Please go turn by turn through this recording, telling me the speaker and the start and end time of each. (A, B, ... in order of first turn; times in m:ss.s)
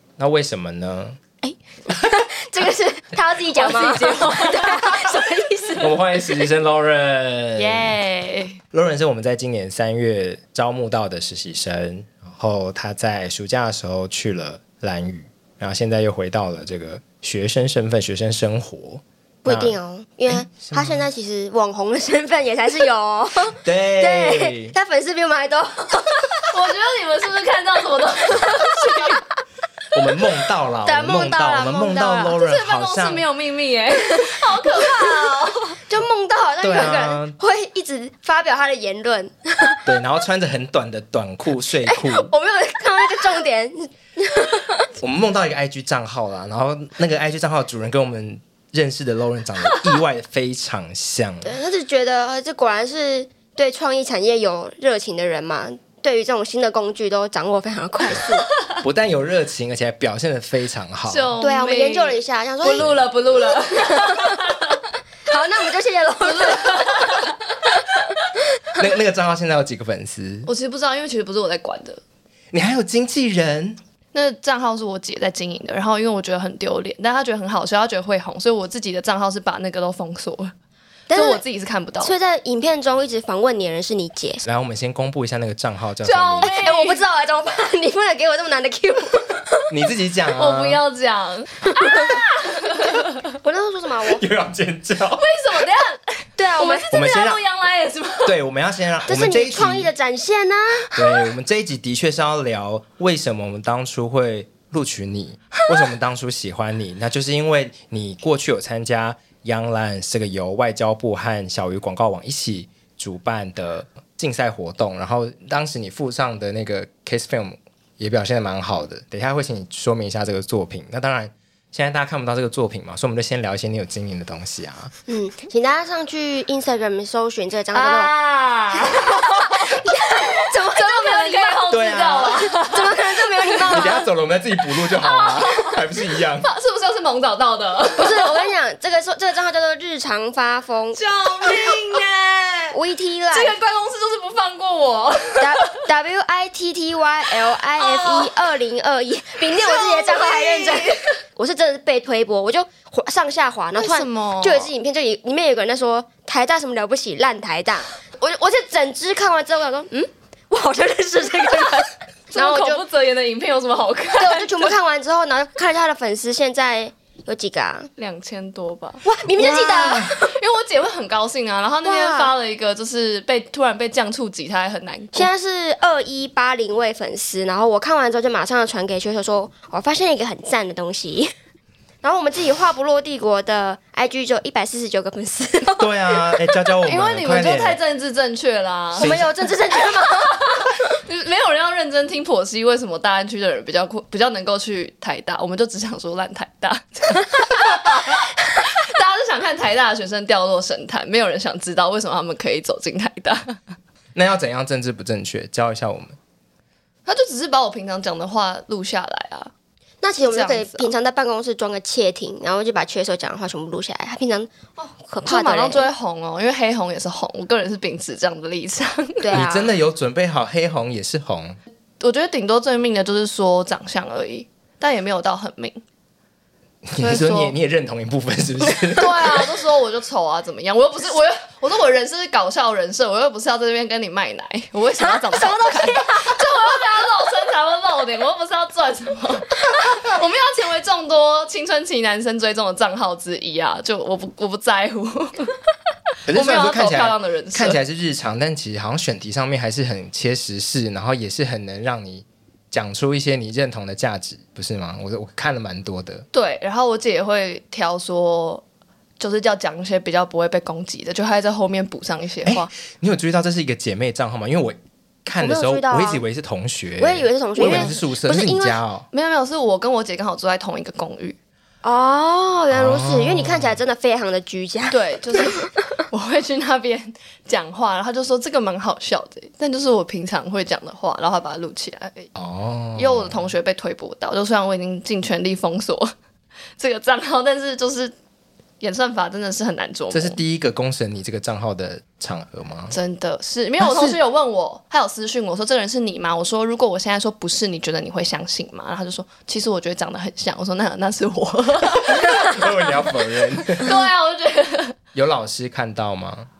0:00.2-0:01.2 A
0:01.4-0:05.9 B
0:03.5-0:05.2 C
0:05.8-0:08.0 A
0:07.6-0:08.6 C
0:08.7-0:21.1 A
0:19.4-0:26.3 B
0:23.6-0:24.7 A
0:26.5-0:29.2 C
0:29.9-0:33.3 A
0:30.8-0:32.4 B
0:32.2-0:35.8 C
0:34.2-0:39.8 B
0:36.6-0:37.4 A
0:39.8-0:42.3 A
0:41.7-0:44.8 B
0:45.0-0:51.6 A
0:51.4-0:58.5 B
0:58.8-1:01.3 A
1:01.0-1:04.6 C
1:01.4-1:02.9 B
1:05.3-1:07.1 B
1:06.2-1:07.3 C
1:08.8-1:10.5 A
1:10.5-1:12.0 C
1:12.5-1:13.8 A
1:14.1-1:20.5 C
1:21.1-1:21.4 B
1:21.1-1:22.2 C
1:22.0-1:24.4 B
1:24.4-1:26.5 A
1:26.0-1:27.0 C
1:26.4-1:29.6 B
1:29.7-1:30.8 A
1:30.4-1:33.1 C
1:31.8-1:32.1 B
1:33.4-1:34.2 B
1:34.1-1:35.2 A
1:35.2-1:38.3 C
1:36.4-1:36.8 B
1:36.9-1:37.4 A
1:38.2-1:39.9 A
1:39.1-1:40.9 B
1:41.0-2:04.9 A
2:05.1-2:08.1 B
2:07.7-2:09.5 C
2:09.5-2:11.6 B
2:10.4-2:13.0 C
2:11.7-2:12.5 A
2:12.7-2:14.0 B
2:13.7-2:16.5 A
2:14.8-2:15.9 C
2:16.4-2:18.4 C
2:18.0-2:21.0 B
2:20.9-2:22.8 C
2:22.7-2:23.6 B
2:23.3-2:25.8 C
2:25.4-2:42.8 B
2:27.8-2:28.3 C
2:29.4-2:31.2 C
2:33.8-2:34.7 C
2:42.3-2:44.8 C
2:44.2-2:47.9 B
2:48.0-2:49.0 C
2:49.0-2:50.2 B
2:49.3-2:50.2 A
2:50.2-2:55.3 C
2:51.8-2:52.3 B
2:55.1-3:01.3 B
3:02.0-3:06.0 B
3:05.8-3:07.8 A
3:06.8-3:09.1 C
3:09.0-3:10.6 B
3:09.0-3:09.3 A
3:10.9-3:18.2 C
3:18.8-3:23.6 C
3:24.2-3:26.2 A
3:27.1-3:29.5 C
3:30.0-3:35.9 B
3:30.2-3:30.9 C
3:35.2-3:39.4 C
3:39.2-3:39.8 B
3:39.3-3:41.6 A
3:42.0-3:45.8 C
3:46.9-3:49.5 A
3:47.0-3:47.6 C
3:49.0-4:05.5 C
3:55.3-3:56.0 B
4:06.3-4:16.2 A
4:06.3-4:07.8 C
4:16.3-4:18.6 C
4:19.2-4:22.7 C
4:22.4-4:29.1 A
4:25.4-4:26.2 B
4:27.0-4:28.8 B
4:27.6-4:27.9 C
4:29.1-4:31.4 C
4:31.8-4:35.6 B
4:32.7-4:33.8 A
4:34.9-4:42.3 C
4:42.3-4:43.4 A
4:43.0-4:46.1 C
4:46.8-4:48.1 C
4:48.8-4:50.4 C
4:50.1-4:53.0 A
4:52.9-5:02.8 C
4:53.8-4:54.2 A
5:02.5-5:04.0 A
5:03.8-5:05.0 C
5:05.1-5:06.5 A